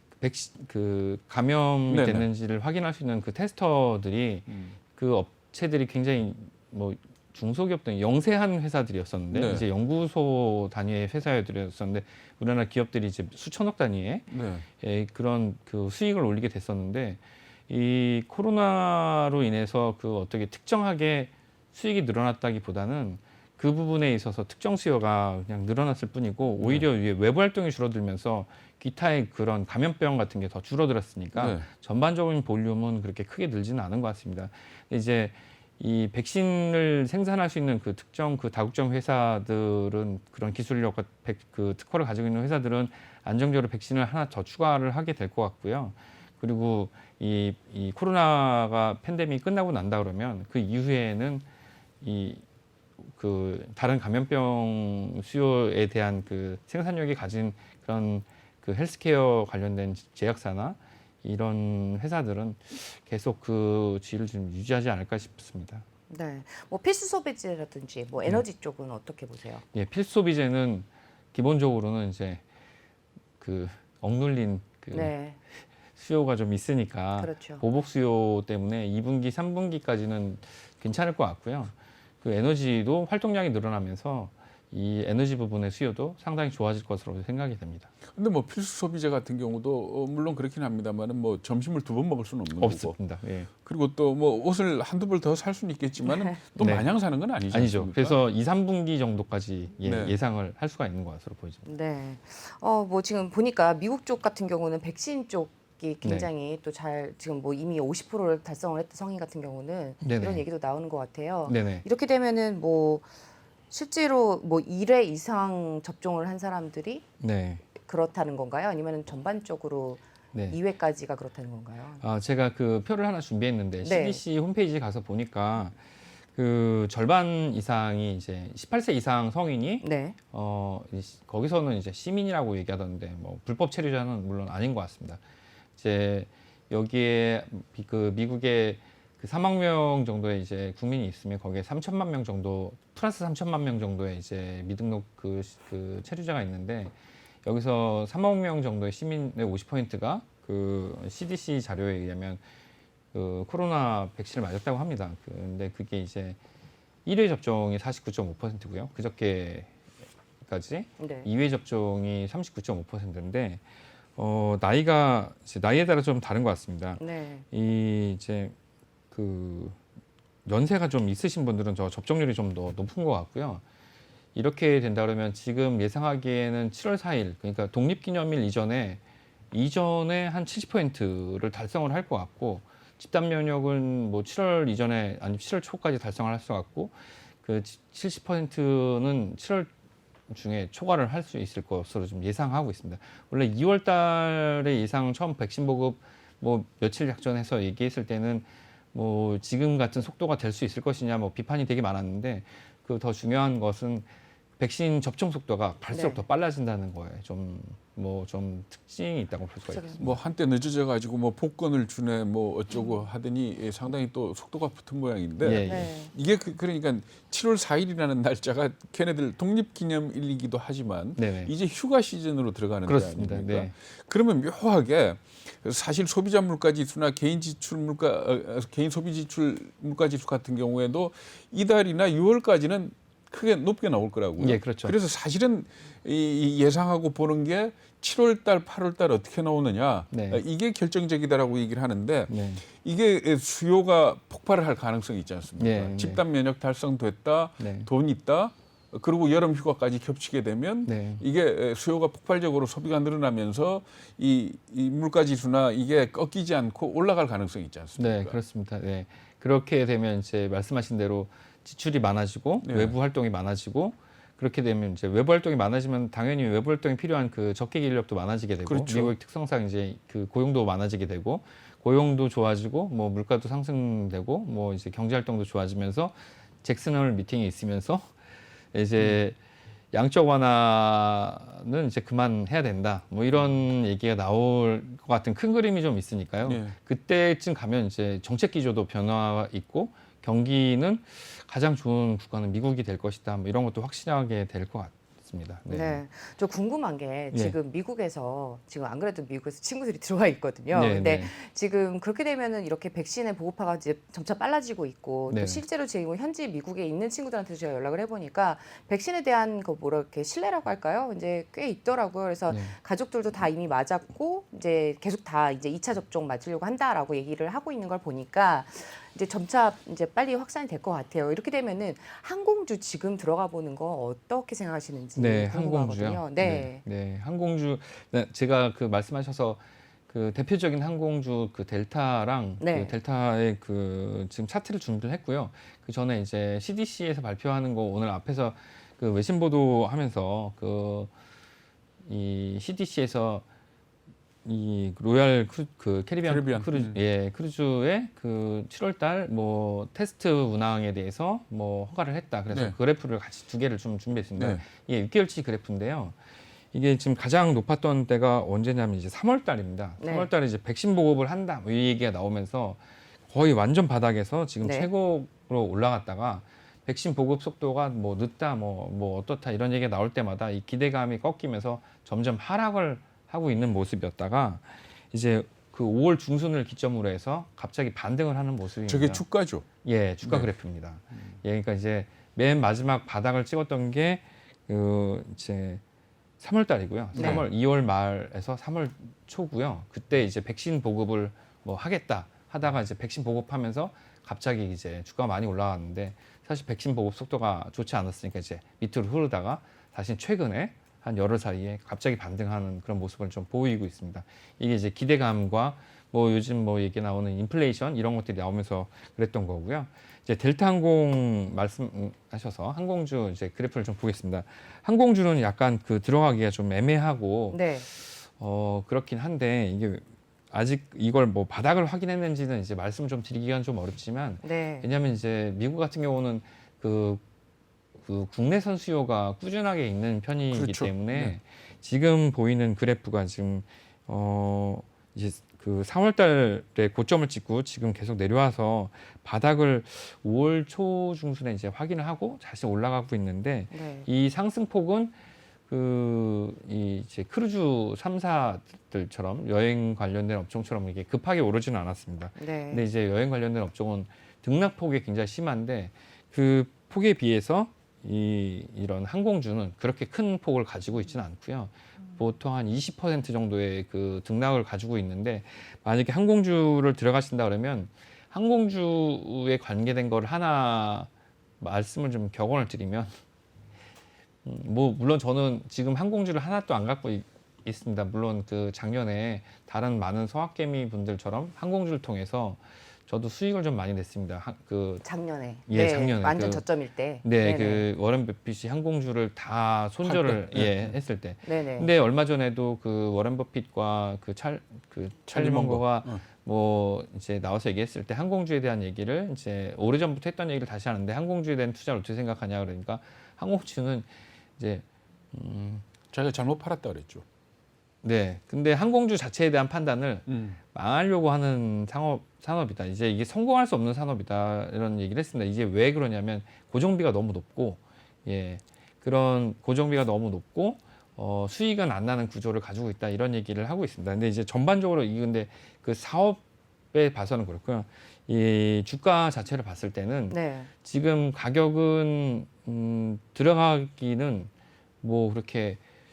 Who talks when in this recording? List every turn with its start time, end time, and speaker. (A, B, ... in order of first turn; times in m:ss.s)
0:00.2-0:14.3 A
0:01.9-0:02.3 B
0:04.5-0:04.8 B
0:09.3-0:09.7 B
0:14.3-0:14.7 B
0:14.8-0:51.4 A
0:26.6-0:26.9 B
0:31.4-0:31.7 B
0:52.0-0:52.4 A
0:53.0-1:05.8 A
1:06.1-1:09.6 C
1:09.7-1:12.4 A
1:13.4-1:15.2 A
1:14.9-1:15.4 C
1:16.0-1:27.9 A
1:17.2-1:17.6 C
1:28.1-1:33.0 B
1:32.6-1:33.5 A
1:33.6-1:38.2 B
1:36.1-1:36.4 C
1:36.6-1:36.9 A
1:37.5-1:41.7 A
1:39.8-1:40.2 B
1:41.7-1:53.1 C
1:46.0-1:46.3 A
1:50.0-1:50.4 A
1:51.4-1:51.8 A
1:53.7-1:57.0 C
1:57.2-1:57.6 A
1:57.7-2:02.0 C
2:02.0-2:05.8 A
2:03.8-2:04.2 C
2:06.4-2:15.2 A
2:09.8-2:10.2 C
2:15.8-2:32.4 A
2:33.1-2:36.4 A
2:37.0-2:39.7 A
2:40.4-2:43.6 A
2:41.0-2:41.3 C
2:44.2-2:48.6 A
2:47.0-2:47.4 C
2:49.1-2:49.8 A
2:50.4-2:53.6 A
2:54.4-2:59.0 A
2:59.5-3:09.7 A
3:10.3-3:24.1 A
3:24.6-3:30.2 A
3:25.9-3:26.2 C
3:29.7-3:30.0 C
3:30.0-4:18.4 B
3:35.4-3:35.9 A
3:35.6-3:36.1 C
3:41.2-3:41.5 A
3:42.9-3:43.7 A
3:54.4-3:55.0 A
4:00.1-4:00.4 A
4:02.3-4:02.6 A
4:05.6-4:06.2 A
4:07.6-4:07.9 A
4:10.8-4:11.2 A
4:18.0-4:38.1 A
4:22.6-4:23.0 B
4:28.6-4:29.2 B
4:38.7-4:39.4 A
4:39.9-4:56.0 A
4:46.4-4:46.8 B
4:55.7-5:26.8 C
5:00.7-5:01.3 A
5:05.3-5:05.6 A
5:12.5-5:12.7 A
5:25.2-5:41.1 A
5:32.6-5:33.0 C
5:42.0-5:43.4 A
5:44.4-5:56.2 A
5:46.2-5:47.0 B
5:54.4-5:54.6 B
5:56.7-6:19.2 A
6:00.0-6:00.3 C
6:04.6-6:04.9 C
6:18.9-6:19.6 B
6:19.8-6:25.8 A
6:20.2-6:20.5 B
6:26.4-7:07.2 A
6:27.2-6:27.5 B
6:27.2-6:27.4 C
6:57.5-6:57.9 C
7:04.4-7:04.9 C
7:08.0-7:25.2 A
7:10.5-7:11.4 B
7:23.7-7:24.1 C
7:25.7-7:53.1 A
7:32.4-7:32.9 C
7:54.4-8:05.1 A
8:05.0-8:07.9 C
8:05.7-8:06.6 A
8:07.2-8:25.9 A
8:10.0-8:11.0 B
8:11.4-8:11.9 C
8:15.3-8:16.2 B
8:26.1-8:27.2 B
8:28.0-8:46.4 A
8:30.3-8:30.6 B
8:46.9-8:54.5 A
8:50.3-8:50.7 C
8:55.0-8:55.8 A